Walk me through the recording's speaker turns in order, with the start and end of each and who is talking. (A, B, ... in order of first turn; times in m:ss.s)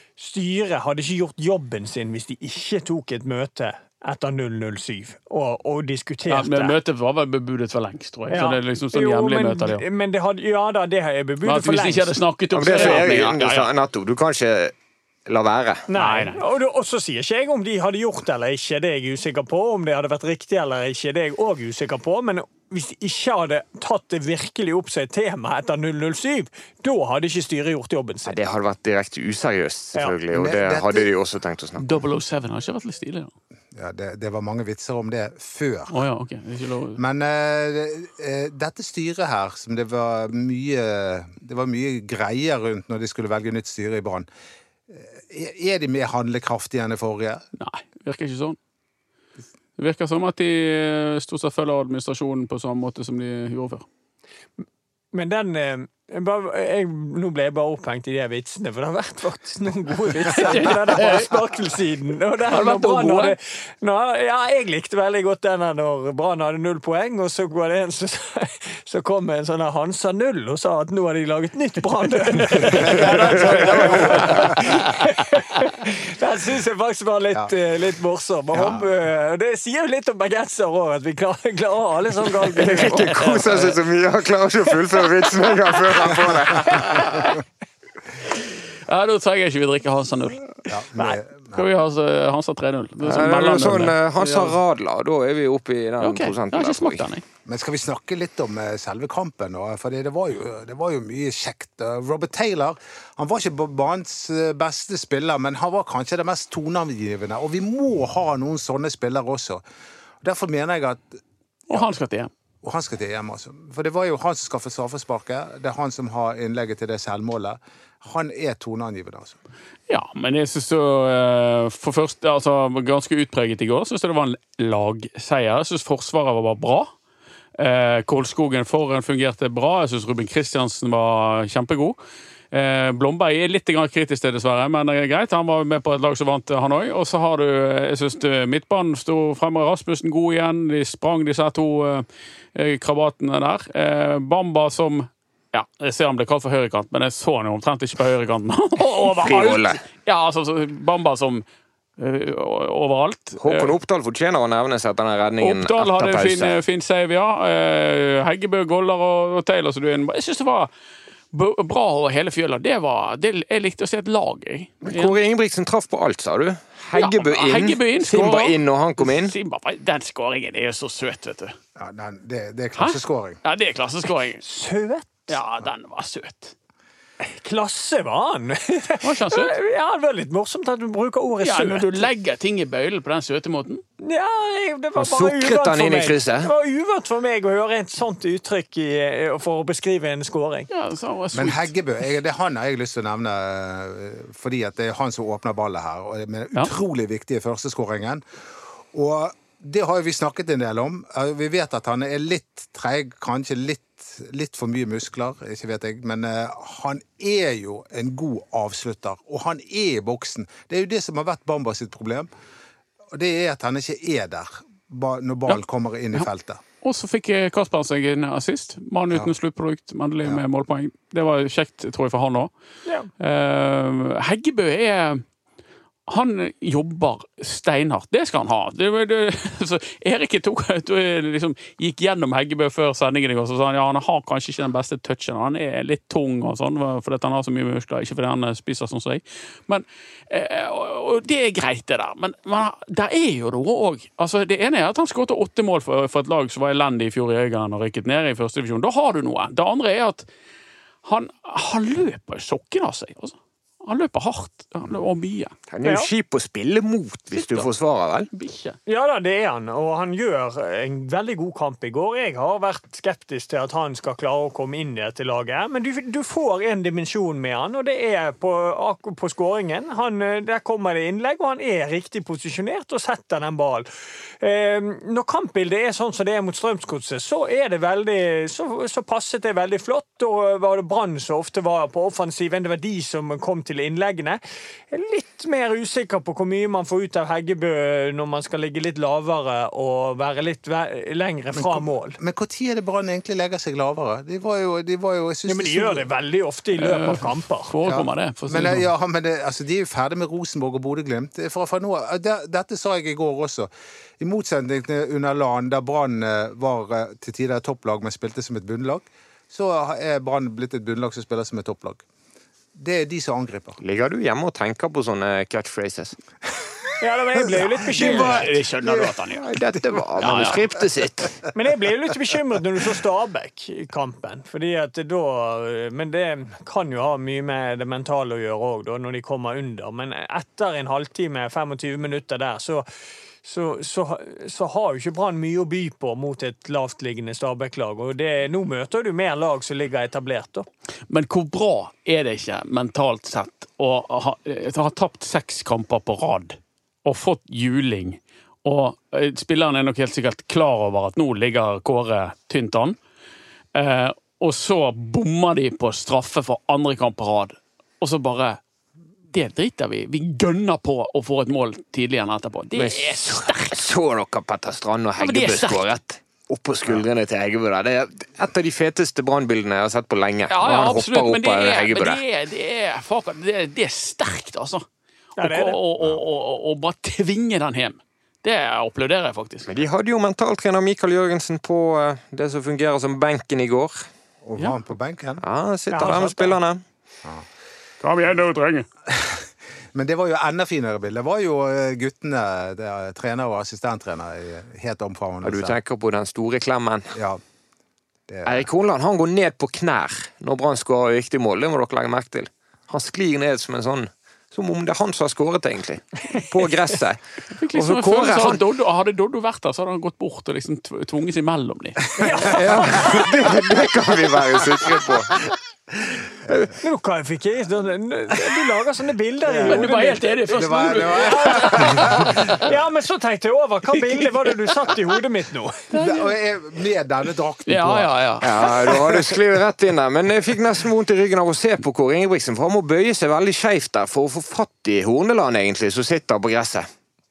0:00.2-0:06.8 A
0:06.3-0:09.8 B
0:08.3-0:13.1 A
0:11.4-0:13.7 B
0:12.5-0:14.8 C
0:15.3-0:15.9 C
0:15.9-0:28.4 A
0:16.0-0:16.4 B
0:28.2-0:32.0 C
0:30.3-0:31.1 D
0:31.8-0:33.3 B
0:33.7-0:36.0 D
0:35.9-0:37.0 B
0:37.0-0:44.3 D
0:44.9-0:47.4 D
0:47.6-0:48.6 B
0:49.8-0:53.8 B
0:55.1-1:23.8 A
1:00.3-1:01.3 B
1:02.5-1:03.4 B
1:12.4-1:15.0 B
1:18.5-1:18.8 D
1:22.5-1:27.3 C
1:26.6-1:27.4 B
1:28.9-1:30.6 B
1:30.7-1:31.6 D
1:31.5-1:34.6 B
1:33.0-1:37.1 C
1:36.0-1:37.2 B
1:37.5-1:49.6 D
1:50.2-1:51.9 D
1:51.7-1:52.3 B
1:52.6-1:59.4 D
1:59.9-2:06.9 B
2:07.6-2:12.0 B
2:12.5-2:31.4 B
2:29.1-2:29.8 C
2:32.0-2:33.7 B
2:33.4-2:36.6 C
2:35.4-2:40.7 B
2:41.3-2:45.2 B
2:44.8-2:49.3 C
2:46.9-2:51.6 B
2:51.8-2:53.4 D
2:52.8-2:54.4 B
2:54.4-2:55.1 A
2:55.3-2:56.6 B
2:57.2-3:02.1 A
2:59.0-2:59.6 B
3:01.4-3:03.8 B
3:04.0-3:10.7 A
3:05.0-3:06.5 C
3:10.7-3:11.7 B
3:11.3-3:18.2 D
3:18.9-3:32.3 D
3:33.1-3:36.6 D
3:36.8-3:42.5 B
3:43.2-3:45.2 B
3:46.1-4:10.2 B
4:11.0-4:15.5 B
4:15.7-4:18.3 C
4:15.8-4:16.1 A
4:17.3-4:17.7 B
4:18.3-4:18.8 B
4:18.9-4:33.9 A
4:34.4-4:52.2 A
4:51.5-4:56.1 D
4:55.5-4:57.7 A
4:56.8-4:58.9 B
4:57.8-5:12.0 D
5:12.8-5:13.8 D
5:13.8-5:16.2 C
5:17.0-5:18.5 A
5:17.4-5:19.2 D
5:17.9-5:19.4 B
5:19.3-5:21.5 C
5:19.8-5:20.5 D
5:20.2-5:20.6 B
5:21.5-5:32.8 A
5:33.4-5:40.7 A
5:41.1-5:53.0 B
5:53.8-5:58.6 B
5:59.3-6:03.8 B
6:02.8-6:12.2 C
6:05.2-6:05.9 B
6:10.5-6:14.9 B
6:15.4-6:15.8 A
6:15.4-6:19.7 B
6:19.6-6:24.1 C
6:24.4-6:25.4 D
6:25.4-6:26.8 C
6:25.9-6:26.6 A
6:28.0-6:28.9 B
6:29.1-6:35.8 D
6:35.4-6:37.2 C
6:37.1-6:37.4 D
6:38.3-6:38.7 D
6:38.5-6:48.6 C
6:47.6-6:52.2 B
6:52.2-6:53.2 A
6:52.4-6:53.2 D
6:52.5-6:55.5 C
6:56.0-6:56.7 D
6:56.5-6:56.7 C
6:56.8-7:05.9 A
6:59.5-6:59.9 D
6:59.6-7:02.6 B
7:00.5-7:02.7 D
7:04.1-7:04.5 B
7:05.9-7:06.3 B
7:05.9-7:08.1 D
7:07.7-7:09.2 B
7:08.4-7:16.9 C